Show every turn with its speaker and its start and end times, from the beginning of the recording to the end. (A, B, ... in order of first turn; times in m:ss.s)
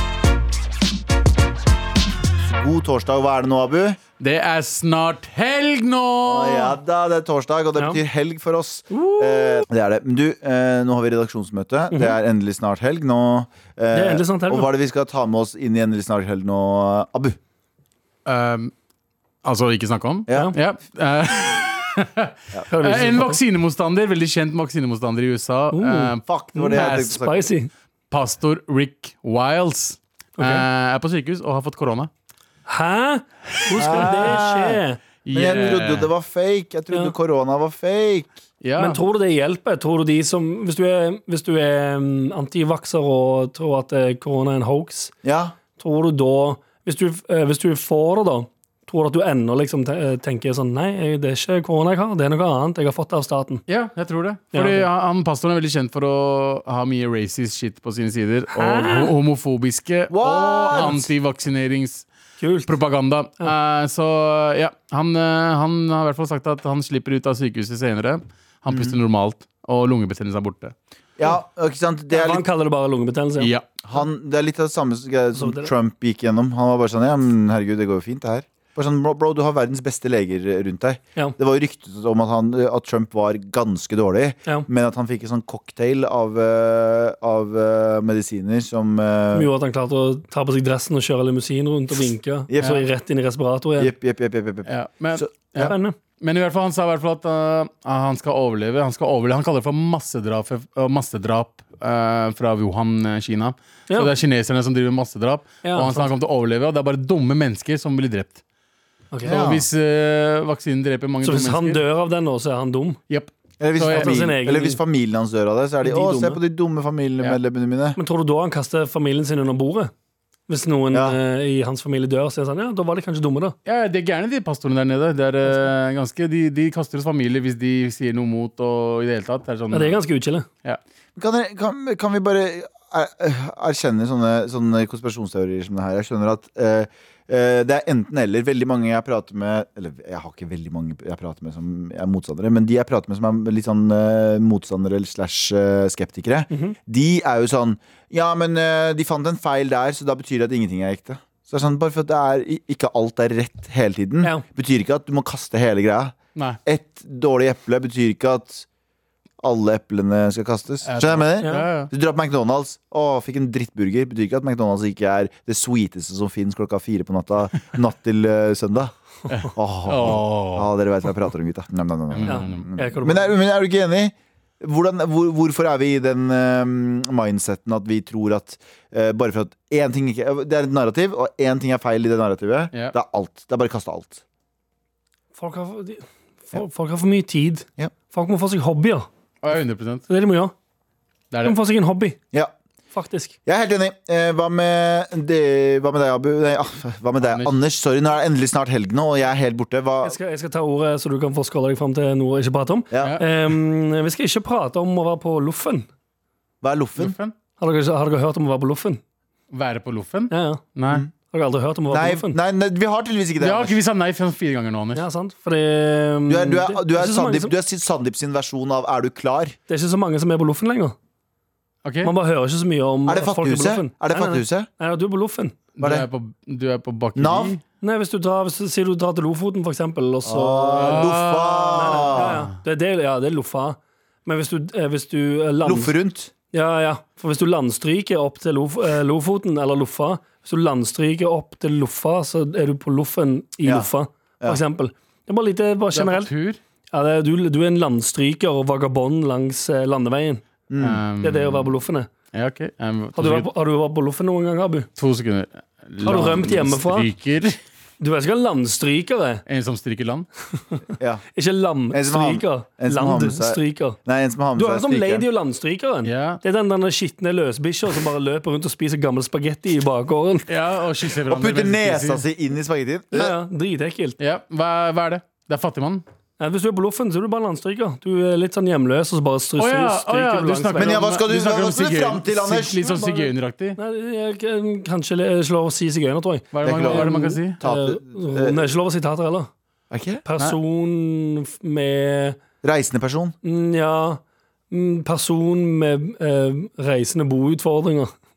0:02.4-0:04.0 A
0:04.2-0:06.8 B
0:06.2-0:17.4 A
0:08.9-0:09.7 C
0:11.9-0:12.2 C
0:13.9-0:14.7 C
0:18.2-0:18.7 B
0:19.4-0:27.1 B
0:22.7-0:23.4 C
0:25.7-0:27.7 C
0:26.2-0:27.4 A
0:28.1-0:32.1 B
0:30.4-0:30.6 C
0:32.6-0:35.0 C
0:33.8-0:34.8 A
0:33.8-0:34.3 B
0:35.2-0:36.1 B
0:35.3-0:38.3 A
0:38.6-0:39.0 B
0:38.8-0:45.1 C
0:45.2-0:45.6 A
0:45.8-0:53.6 C
0:53.7-1:02.1 B
0:54.5-0:54.8 C
0:58.5-0:59.1 C
1:00.1-1:01.1 A
1:02.4-1:02.7 C
1:02.6-1:10.7 B
1:08.7-1:09.0 A
1:11.2-1:12.4 A
1:12.1-1:13.5 C
1:13.4-1:13.7 B
1:13.8-1:29.5 A
1:15.4-1:15.7 C
1:29.3-1:33.9 C
1:32.5-1:32.8 A
1:33.8-1:35.7 A
1:34.7-1:48.4 B
1:35.6-1:36.0 C
1:45.6-1:46.1 C
1:49.1-1:49.4 C
1:49.2-1:49.7 A
1:49.2-1:51.8 B
1:51.2-1:53.0 C
1:53.1-1:54.2 B
1:53.6-1:58.0 A
1:53.9-1:54.8 C
1:55.8-1:56.4 C
1:58.0-1:59.9 C
2:00.5-2:03.5 C
2:00.9-2:01.2 A
2:03.6-2:10.0 B
2:09.7-2:10.5 C
2:11.2-2:38.6 A
2:26.5-2:26.8 C
2:39.4-3:04.2 A
2:40.8-2:41.9 B
2:49.3-2:50.7 B
2:52.1-2:52.6 B
2:52.2-2:53.3 C
3:05.4-3:09.1 C
3:09.4-3:10.0 B
3:10.1-3:10.5 C
3:11.3-3:11.6 B
3:11.4-3:12.2 C
3:12.9-3:13.3 C
3:13.4-3:20.2 A
3:17.2-3:17.5 B
3:20.0-3:25.9 C
3:22.9-3:23.2 A
3:23.0-3:23.2 B
3:26.6-3:27.2 A
3:27.0-3:27.3 B
3:27.6-3:29.0 C
3:29.5-3:31.0 B
3:30.3-3:30.6 C
3:31.3-3:32.4 C
3:31.9-3:33.8 A
3:33.4-3:35.0 B
3:34.9-3:37.5 C
3:36.3-3:39.6 A
3:39.7-3:40.9 C
3:41.8-3:42.1 B
3:42.0-3:45.5 C
3:43.0-3:44.7 A
3:45.8-3:47.6 B
3:45.8-3:46.1 A
3:47.1-3:47.5 A
3:47.8-3:51.1 C
3:50.2-3:52.4 A
3:50.8-3:52.4 B
3:51.7-3:55.9 C
3:55.6-3:56.3 A
3:56.5-4:06.3 C
4:03.6-4:03.9 A
4:05.9-4:06.6 B
4:06.9-4:10.4 C
4:10.7-4:11.0 A
4:10.8-4:11.7 B
4:11.2-4:12.1 C
4:12.3-4:13.5 B
4:13.2-4:14.9 C
4:15.0-4:17.6 B
4:16.0-4:17.1 C
4:18.0-4:19.4 C
4:19.4-4:20.3 B
4:21.0-4:21.2 A
4:21.3-4:24.0 C
4:21.9-4:25.2 A
4:24.5-4:30.5 C
4:26.0-4:26.4 B
4:30.5-4:32.2 B
4:31.2-4:33.3 A
4:33.1-4:34.2 C
4:34.2-4:36.0 B
4:36.4-4:41.0 C
4:39.6-4:43.8 B
4:40.8-4:43.0 A
4:42.8-4:49.5 C
4:46.5-4:47.6 B
4:46.6-4:48.6 A
4:49.9-4:50.2 A
4:50.2-4:52.4 C
4:52.6-4:53.3 A
4:53.4-4:58.1 C